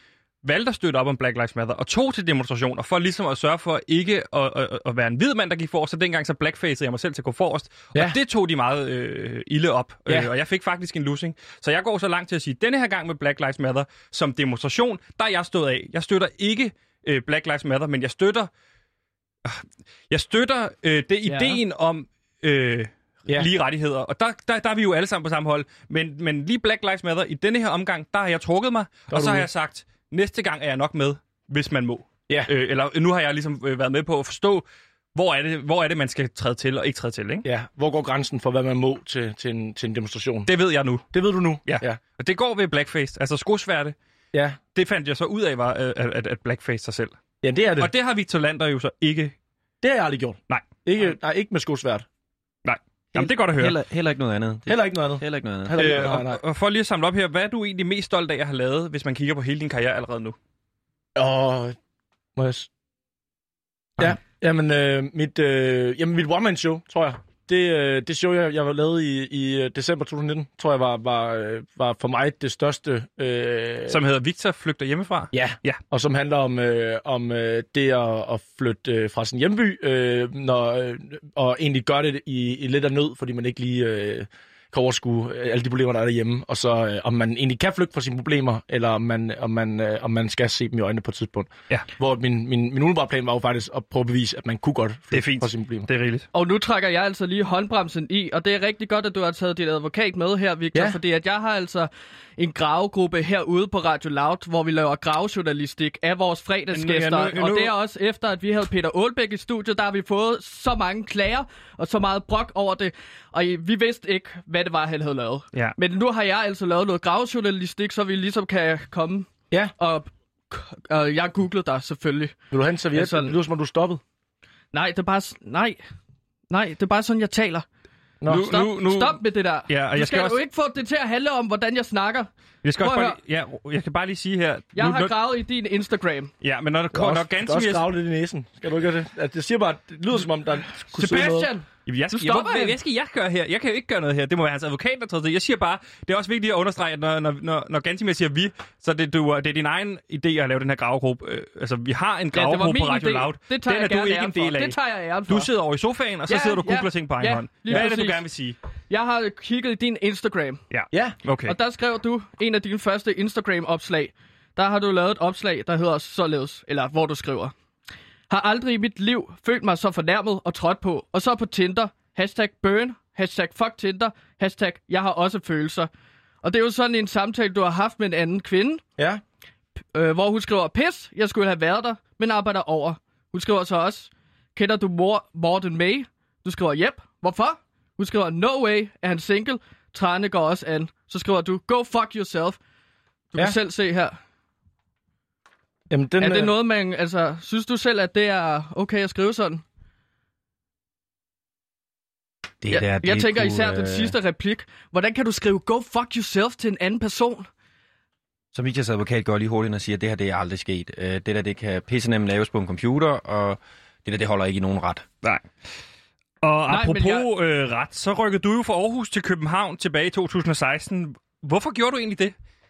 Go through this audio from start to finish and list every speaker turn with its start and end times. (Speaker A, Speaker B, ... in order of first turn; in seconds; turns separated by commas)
Speaker A: 0.4-18.5, Speaker A: 19.4-34.6, Speaker B: 21.3-21.5, Speaker C: 29.1-29.5, Speaker A: 35.1-37.5, Speaker C: 37.4-40.5, Speaker A: 40.5-41.0, Speaker C: 41.1-42.0, Speaker A: 41.6-43.9, Speaker C: 44.3-44.6, Speaker A: 44.7-47.1, Speaker C: 47.4-47.9, Speaker A: 47.8-49.3, Speaker C: 49.8-52.0, Speaker A: 52.6-53.8, Speaker D: 53.1-56.0, Speaker C: 54.7-56.4, Speaker A: 55.8-60.4, Speaker C: 61.1-61.8, Speaker C: 62.4-62.7, Speaker C: 64.0-74.0, Speaker A: 73.9-75.8, Speaker C: 75.3-95.9, Speaker A: 95.1-96.3, Speaker B: 96.3-122.3, Speaker C: 100.7-101.0, Speaker A: 106.7-107.7, Speaker C: 122.5-124.0, Speaker B: 122.9-123.3, Speaker B: 124.7-125.8, Speaker B: 126.5-127.6, Speaker C: 128.2-128.5, Speaker A: 128.3-130.4, Speaker B: 128.3-133.2, Speaker A: 132.6-135.1, Speaker B: 134.7-136.3, Speaker A: 136.4-137.8, Speaker C: 136.9-141.5, Speaker A: 140.9-158.6, Speaker B: 141.0-142.8, Speaker B: 152.3-155.5, Speaker B: 156.3-158.2, Speaker B: 158.9-160.6, Speaker A: 160.7-161.5, Speaker B: 161.4-167.5, Speaker B: 168.3-175.9, Speaker B: 176.4-178.8, Speaker B: 179.9-192.6, Speaker B: 193.3-194.2, Speaker C: 195.9-196.5, Speaker B: 196.2-199.6, Speaker D: 202.6-204.1, Speaker B: 202.7-207.5, Speaker D: 208.5-215.1, Speaker A: 216.4-222.3, Speaker B: 216.7-217.3